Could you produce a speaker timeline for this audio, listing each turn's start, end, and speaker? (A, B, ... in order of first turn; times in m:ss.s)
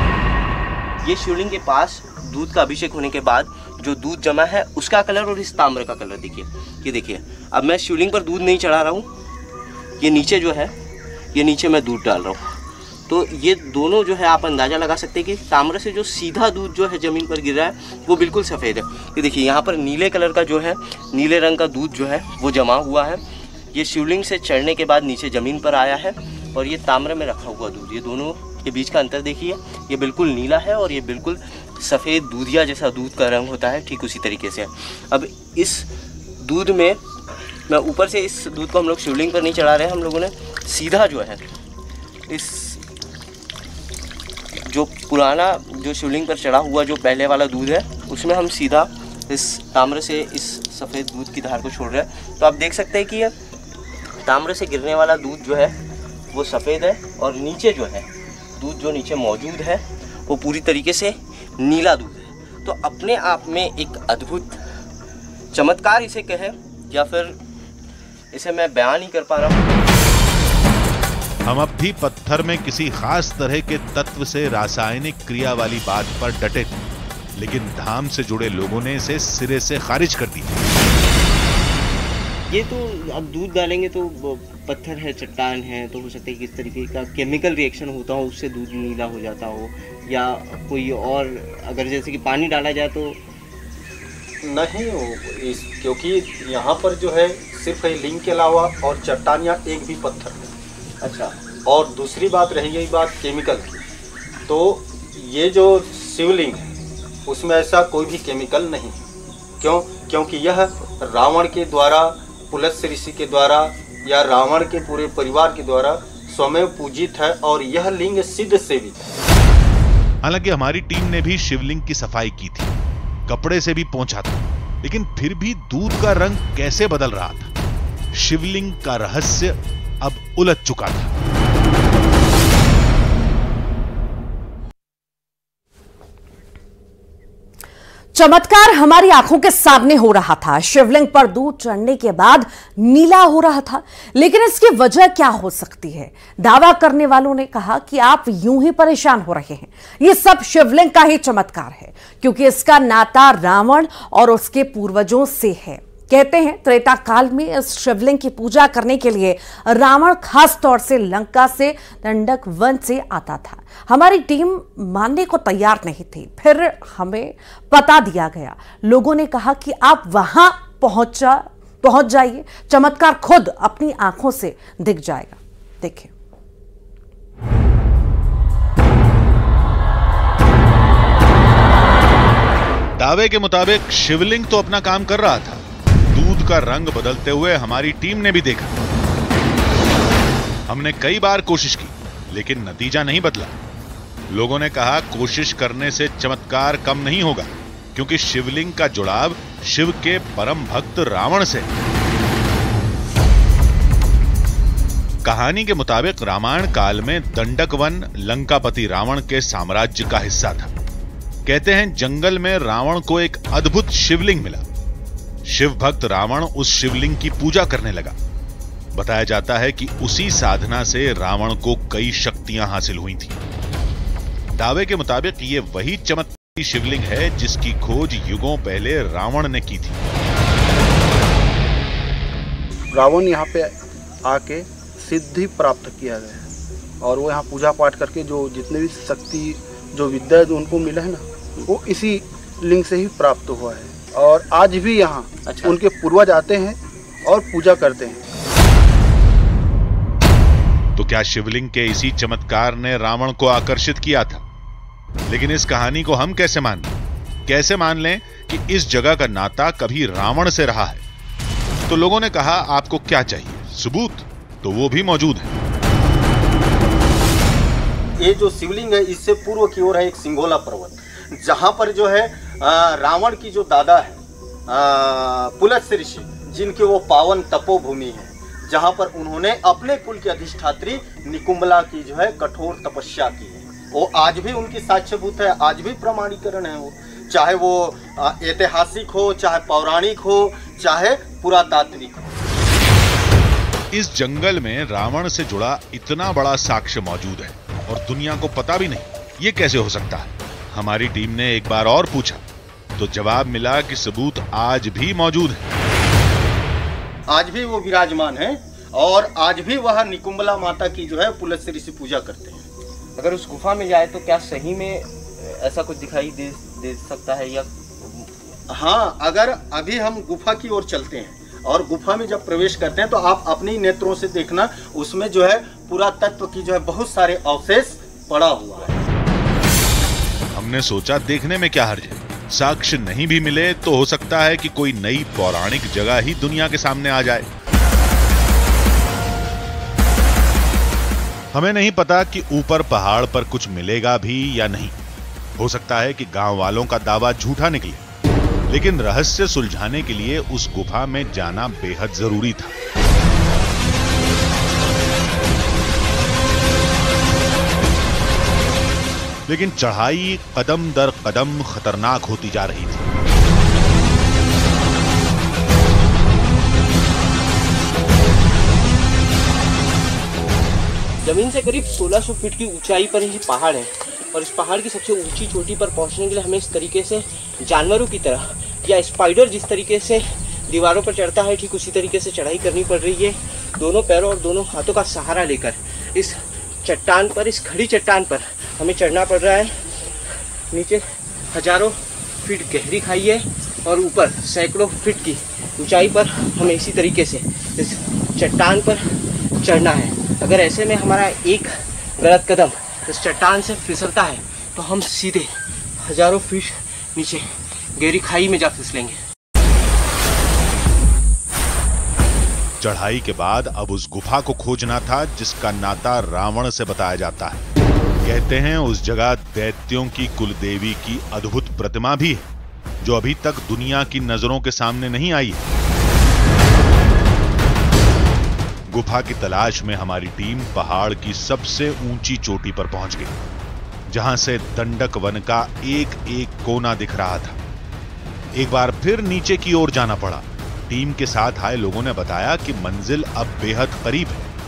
0:01.0-0:09.1 A
0:10.0-0:10.7 A
0:11.3-0:12.6 A
0:13.1-0:23.2 A
0:23.7-0:35.9 A
0:36.4-0:37.0 A
0:37.7-0:41.4 A
0:42.3-0:42.8 A
0:44.6-0:53.3 A
0:54.2-0:55.7 A
0:56.3-1:04.6 A
1:05.5-1:07.4 A
1:08.3-1:09.7 A
1:11.4-1:16.8 B
1:17.4-1:20.6 B
1:22.5-1:33.2 A
1:34.4-1:40.5 C
1:41.0-1:41.3 A
1:41.6-1:43.8 C
1:44.5-1:46.7 C
1:47.2-1:49.1 C
1:49.6-1:59.1 C
2:00.2-2:02.7 B
2:03.3-2:07.5 B
2:08.1-2:11.2 B
2:18.1-2:56.1 D
3:03.0-3:08.8 B
3:10.7-3:13.5 B
3:14.3-3:21.7 B
3:25.2-3:30.7 B
3:31.4-3:34.6 B
3:35.4-3:38.2 B
3:38.9-3:43.4 B
3:44.5-3:50.0 B
3:52.9-3:56.4 E
3:57.0-4:08.2 E
4:05.4-4:05.7 A
4:11.0-4:14.4 B
4:15.3-4:16.9 B
4:17.4-4:21.0 B
4:21.9-4:25.5 B
4:28.2-4:52.4 C
4:53.9-5:02.4 B
5:03.0-5:05.7 B
5:07.3-5:12.7 C
5:13.2-5:18.3 A
5:18.7-5:29.0 C
5:30.5-5:37.5 B
5:41.5-5:44.9 B
5:45.6-5:48.0 B
5:48.7-5:52.8 B
5:59.5-6:03.0 B
6:11.2-6:29.7 A
6:30.7-6:39.1 A
6:39.6-6:49.2 A
6:52.8-6:57.6 B
6:58.2-7:02.5 B
7:03.0-7:05.6 B
7:08.9-7:13.3 B
7:14.1-7:17.6 B
7:18.5-7:24.5 B